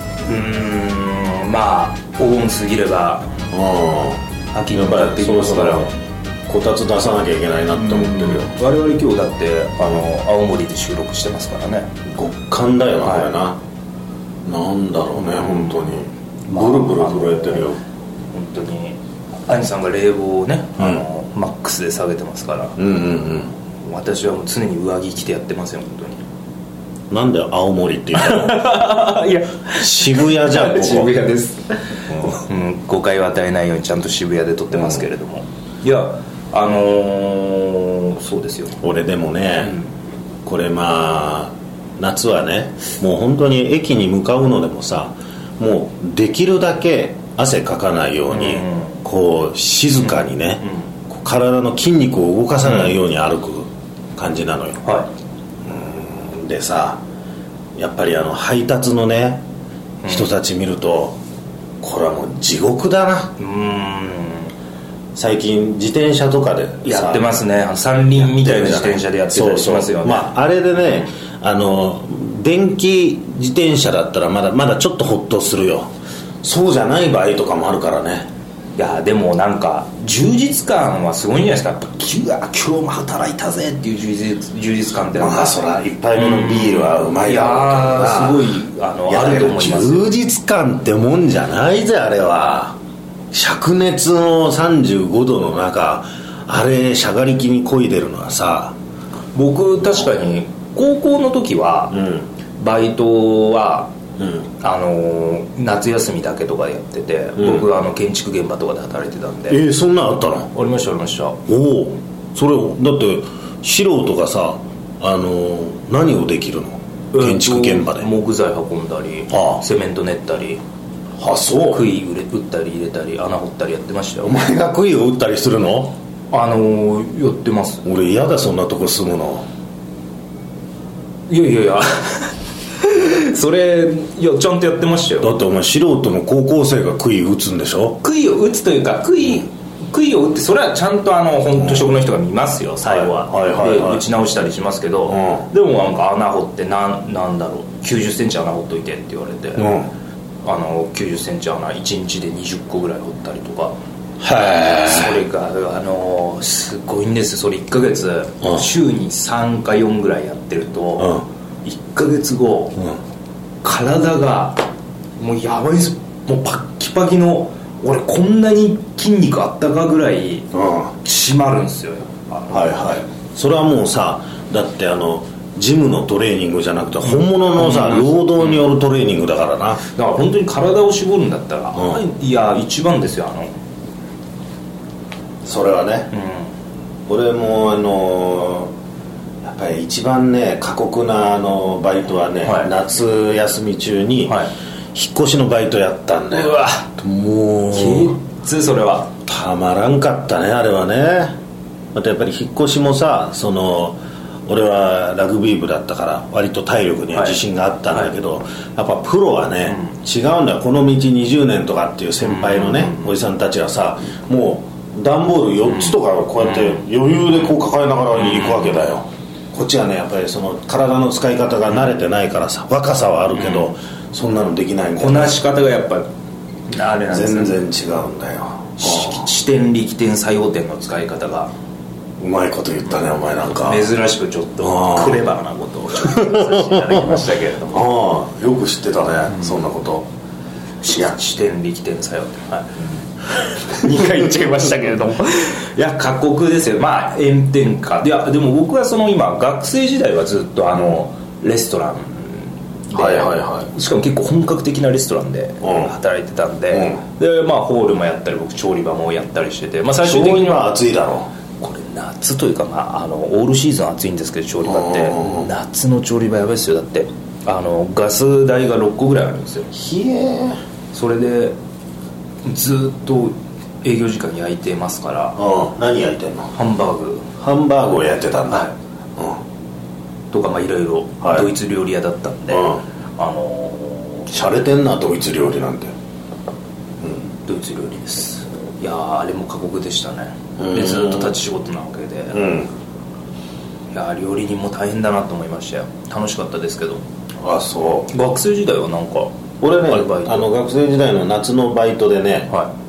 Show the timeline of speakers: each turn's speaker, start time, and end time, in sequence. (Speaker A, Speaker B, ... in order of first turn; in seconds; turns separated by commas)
Speaker A: 0.2-3.3, Speaker B: 3.5-5.9, Speaker A: 4.5-5.9, Speaker B: 6.5-8.5, Speaker A: 7.7-11.9, Speaker B: 12.1-13.6, Speaker B: 14.4-17.8, Speaker A: 16.5-17.7, Speaker A: 18.3-22.8, Speaker B: 22.8-23.5, Speaker A: 23.8-26.2, Speaker B: 27.1-28.7, Speaker A: 28.1-38.8, Speaker B: 29.8-31.1, Speaker B: 32.1-32.4, Speaker B: 38.8-39.8, Speaker B: 40.4-54.8, Speaker A: 48.3-49.0, Speaker A: 52.6-52.9, Speaker B: 55.6-57.0, Speaker B: 57.8-59.4, Speaker B: 60.0-61.2, Speaker B: 61.8-63.3, Speaker A: 63.4-64.5, Speaker B: 65.1-67.3, Speaker A: 66.8-70.3, Speaker B: 68.1-75.9, Speaker B: 76.4-78.3, Speaker A: 78.8-85.6, Speaker B: 85.1-88.5, Speaker A: 86.1-90.1, Speaker B: 89.1-92.8, Speaker B: 93.3-98.8, Speaker A: 99.3-103.9, Speaker B: 101.9-102.2, Speaker A: 104.6-109.6, Speaker B: 109.5-110.5, Speaker A: 110.5-111.4, Speaker B: 111.5-118.1, Speaker A: 117.1-120.6, Speaker B: 119.3-119.6, Speaker B: 121.2-121.9, Speaker A: 121.5-124.4, Speaker B: 124.2-126.0, Speaker A: 126.3-127.8, Speaker B: 127.8-129.5, Speaker A: 131.3-135.4, Speaker B: 135.2-138.0, Speaker A: 138.0-149.7, Speaker B: 142.8-144.0, Speaker B: 145.1-145.4, Speaker B: 149.6-149.9, Speaker A: 150.4-153.8, Speaker B: 154.2-155.2, Speaker A: 154.8-162.8, Speaker B: 161.0-161.2, Speaker A: 163.6-164.6, Speaker A: 165.2-170.5, Speaker B: 170.5-170.9, Speaker A: 171.0-172.9, Speaker B: 172.5-179.8, Speaker A: 177.6-178.6, Speaker A: 179.9-183.5, Speaker B: 181.7-182.0, Speaker B: 185.4-186.1, Speaker A: 186.1-186.5, Speaker B: 187.1-188.7, Speaker B: 189.4-194.4, Speaker A: 192.4-192.7, Speaker B: 194.9-198.2, Speaker A: 196.3-196.9, Speaker A: 197.7-199.1, Speaker B: 199.2-201.3, Speaker B: 201.9-225.4, Speaker A: 212.2-213.1, Speaker A: 218.2-218.7, Speaker A: 225.0-226.1, Speaker A: 226.7-227.6, Speaker B: 227.1-229.2, Speaker A: 228.8-231.5, Speaker B: 232.2-233.9, Speaker A: 233.6-237.9, Speaker B: 234.6-235.2, Speaker B: 236.1-240.1, Speaker A: 240.8-242.8, Speaker A: 243.4-260.7, Speaker B: 252.9-253.7, Speaker B: 255.6-255.9, Speaker B: 256.7-257.0, Speaker B: 260.0-261.3, Speaker A: 261.6-269.7, Speaker B: 264.6-265.5, Speaker B: 269.7-270.6, Speaker A: 270.9-271.6, Speaker A: 272.4-275.4, Speaker B: 275.4-276.5, Speaker A: 276.5-277.3, Speaker B: 277.4-279.4, Speaker A: 280.3-284.3, Speaker B: 281.2-281.5, Speaker B: 282.5-282.8, Speaker B: 284.3-285.9, Speaker A: 287.4-292.5, Speaker B: 290.6-291.3, Speaker B: 292.3-292.7, Speaker A: 293.9-297.0, Speaker B: 297.4-298.1, Speaker A: 298.1-300.4, Speaker B: 299.6-302.5